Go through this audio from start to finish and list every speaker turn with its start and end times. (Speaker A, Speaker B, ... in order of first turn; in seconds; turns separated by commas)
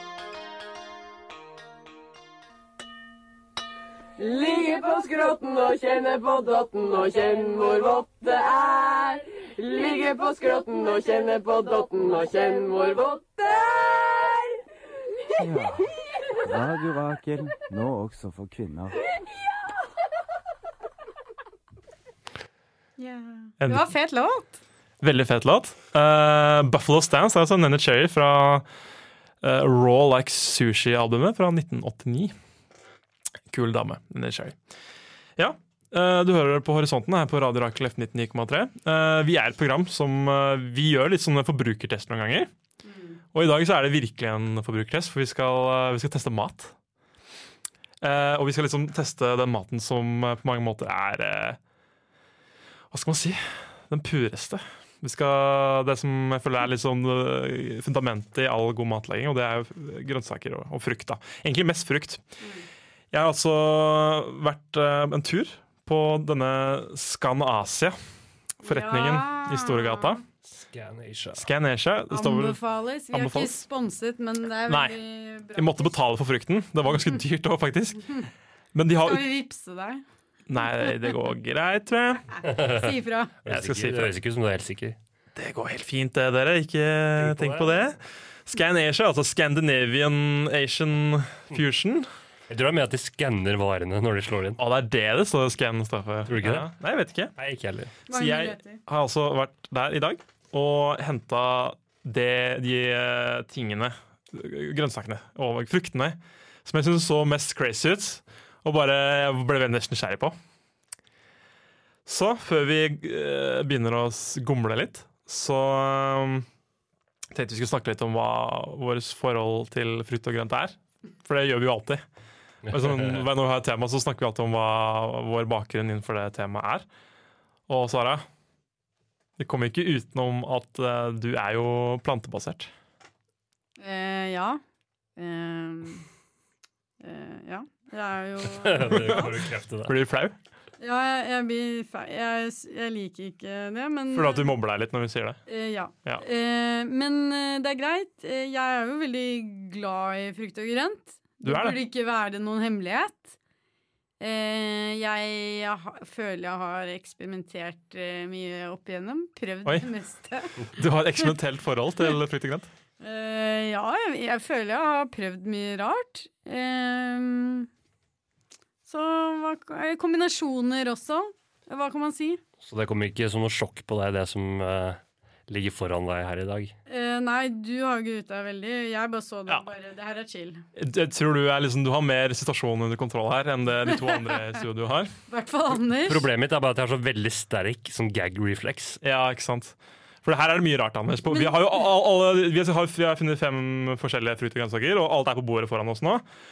Speaker A: 4.2-14.4, Speaker B: 15.3-15.8, Speaker B: 16.4-19.0, Speaker C: 23.0-24.5, Speaker D: 23.6-23.9, Speaker D: 25.0-28.7, Speaker D: 29.4-32.3, Speaker D: 33.5-34.5, Speaker D: 35.4-42.5, Speaker C: 42.8-43.2, Speaker D: 43.3-46.7, Speaker D: 48.0-51.6, Speaker D: 52.9-62.2, Speaker D: 63.1-68.0, Speaker D: 68.6-70.2, Speaker C: 68.6-70.2, Speaker E: 70.4-71.5, Speaker D: 71.4-72.6, Speaker C: 72.1-75.9, Speaker D: 73.1-73.6, Speaker D: 74.7-75.0, Speaker D: 75.5-78.2, Speaker D: 78.7-79.3, Speaker C: 79.0-80.0, Speaker D: 80.5-82.3, Speaker E: 82.4-82.9, Speaker C: 82.6-83.3, Speaker E: 83.4-85.0, Speaker D: 83.5-84.2, Speaker D: 85.3-92.1, Speaker E: 87.2-87.9, Speaker E: 92.5-94.6, Speaker D: 94.6-97.3, Speaker E: 96.3-96.7, Speaker E: 97.4-97.9, Speaker C: 98.1-98.8, Speaker D: 98.1-110.3, Speaker D: 112.0-116.5, Speaker D: 117.3-122.0, Speaker E: 122.6-123.3, Speaker D: 122.7-126.8, Speaker D: 127.7-128.2, Speaker D: 129.4-132.7, Speaker C: 133.8-134.6, Speaker C: 135.2-136.0, Speaker C: 137.0-139.3, Speaker E: 138.5-139.9, Speaker D: 139.8-140.4, Speaker C: 140.8-144.5, Speaker D: 144.1-145.4, Speaker C: 145.5-153.3, Speaker D: 151.4-151.8, Speaker C: 154.2-160.6, Speaker D: 160.7-162.7, Speaker C: 163.0-167.7, Speaker C: 168.8-172.4, Speaker E: 172.6-176.7, Speaker C: 176.9-180.6, Speaker D: 180.8-185.1, Speaker C: 183.9-184.5, Speaker C: 185.3-186.3, Speaker E: 185.9-189.0, Speaker D: 189.0-196.2